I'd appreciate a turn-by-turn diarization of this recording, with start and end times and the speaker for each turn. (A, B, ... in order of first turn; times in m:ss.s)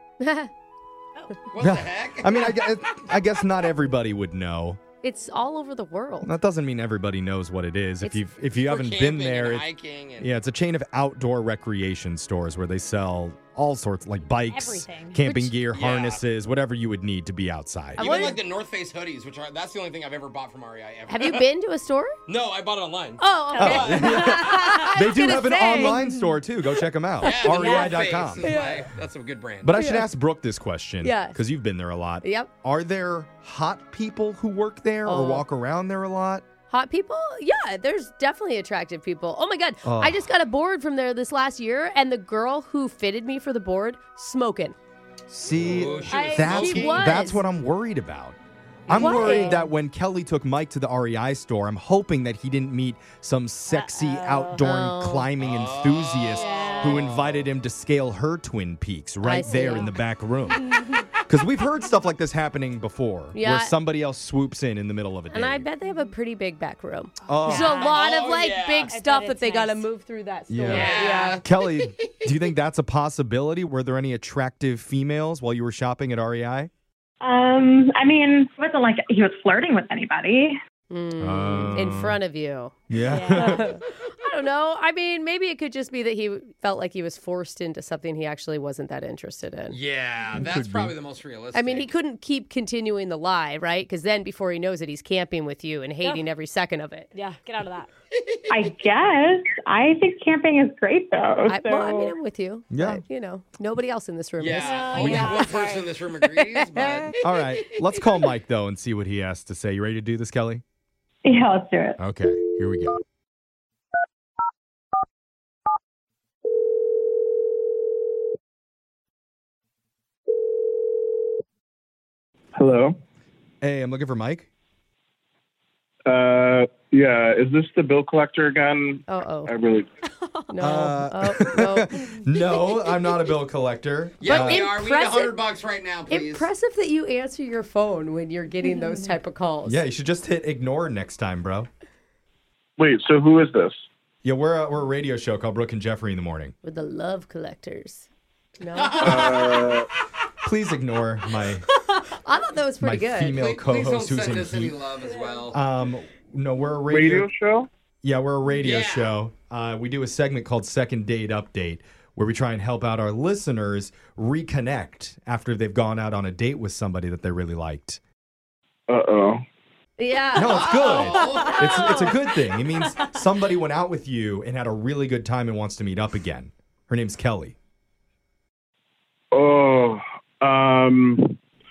0:00.2-0:00.5 A
0:01.5-0:03.0 B
0:01.6-0:04.8 C
0:05.0-0:06.3 A
0:06.2-0:09.7 C
0:08.6-0:10.3 B
0:10.2-0:18.3 C
0:14.2-0:15.2 D
0:15.2-0:15.5 A
0:15.7-0:16.2 B
0:18.0-0:18.4 A
0:18.0-0:21.4 B
0:21.1-0:22.2 A
0:22.3-0:24.2 B
0:23.2-0:26.0 A
0:23.6-0:28.5 C
0:24.0-0:25.0 D
0:25.6-0:26.1 D
0:27.2-0:29.7 B
0:27.2-0:27.8 A
0:27.4-0:28.0 D
0:28.4-0:28.9 A
0:29.6-0:36.4 C
0:29.7-0:30.1 A
0:31.0-0:31.4 A
0:32.2-0:32.5 A
0:35.1-0:35.4 A
0:36.7-0:44.8 A
0:39.8-0:40.2 C
0:45.3-0:48.4 C
0:45.5-0:47.2 B
0:46.1-0:47.4 A
0:48.9-1:05.7 C
0:48.9-0:49.2 B
0:48.9-0:49.7 A
0:49.1-0:49.4 D
0:53.7-0:54.6 D
0:54.6-0:55.3 A
0:55.4-0:57.5 B
0:56.3-0:57.1 D
0:59.2-1:00.0 A
0:59.5-0:59.8 D
1:03.4-1:03.8 A
1:05.3-1:11.4 A
1:07.3-1:07.8 C
1:07.5-1:09.0 B
1:08.9-1:09.9 D
1:10.5-1:16.7 C
1:10.7-1:12.3 B
1:17.2-1:20.6 E
1:20.9-1:29.8 A
1:21.2-1:22.2 C
1:22.9-1:23.6 C
1:23.0-1:23.7 D
1:29.7-1:31.9 B
1:30.4-1:31.0 C
1:31.5-1:37.1 A
1:37.1-1:37.9 D
1:38.1-1:38.5 B
1:38.5-1:42.1 E
1:41.5-1:45.6 A
1:42.7-1:43.0 C
1:44.4-1:48.2 B
1:44.6-1:45.9 D
1:46.6-1:47.1 A
1:47.2-1:50.6 C
1:51.2-1:52.0 E
1:52.0-1:53.0 C
2:02.6-2:03.0 F
2:03.6-2:04.5 C
2:06.1-2:09.9 F
2:09.1-2:09.5 A
2:10.2-2:10.5 D
2:10.5-2:11.9 A
2:10.6-2:14.6 C
2:14.2-2:16.5 B
2:14.2-2:15.4 A
2:16.1-2:19.8 A
2:19.6-2:21.7 C
2:22.8-2:23.8 F
2:24.2-2:26.5 C
2:26.6-2:28.1 A
2:28.6-2:29.4 A
2:28.8-2:29.8 B
2:29.0-2:29.9 F
2:30.4-2:31.6 C
2:32.1-2:33.4 A
2:32.8-2:34.8 C
2:33.3-2:35.6 B
2:35.1-2:35.4 D
2:35.5-2:37.3 C
2:36.9-2:37.7 F
2:38.0-2:48.0 C
2:38.6-2:39.1 B
2:48.9-2:49.4 F
2:50.0-2:50.7 A
2:50.3-2:57.6 C
2:50.4-2:51.8 B
2:51.2-2:52.1 D
2:52.8-2:53.2 D
2:59.3-3:01.4 F